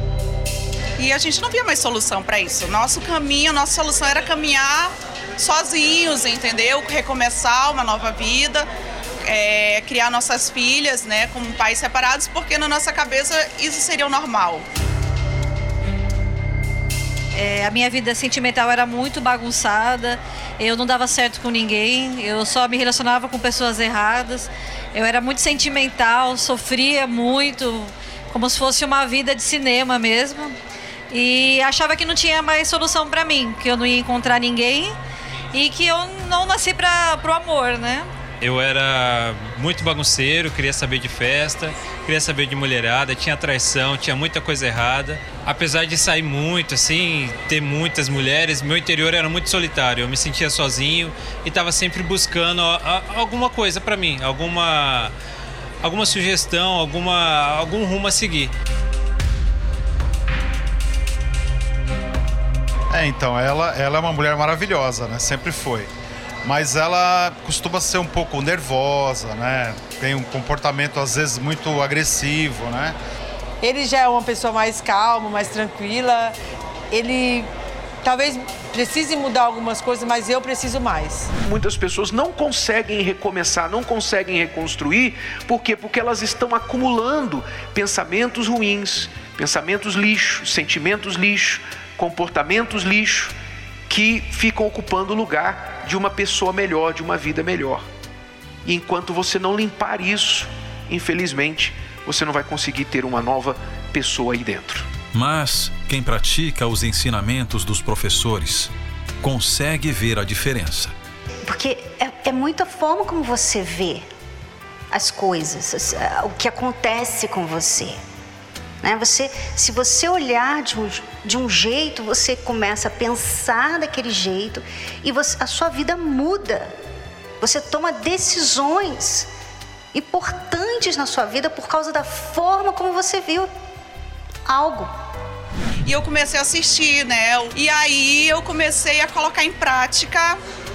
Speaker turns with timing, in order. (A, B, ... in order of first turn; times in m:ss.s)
0:01.0-0:08.7 A
0:09.2-0:14.6 A
0:17.3-0:30.6 B
0:31.1-0:35.0 B
0:35.5-0:38.1 B
0:38.4-0:55.1 C
0:55.8-0:58.5 C
1:02.9-1:05.9 D
1:06.4-1:13.0 D
1:13.6-1:16.3 E
1:16.9-1:17.5 E
1:18.0-1:21.3 E
1:21.4-1:33.3 F
1:33.9-1:37.9 F
1:38.6-1:44.9 F
1:45.1-1:50.9 G
1:51.4-1:54.0 H
1:54.9-1:58.0 H
1:58.8-2:06.7 H
2:07.4-2:09.3 H
2:09.9-2:13.5 H
2:14.4-2:14.9 H
2:15.8-2:20.4 A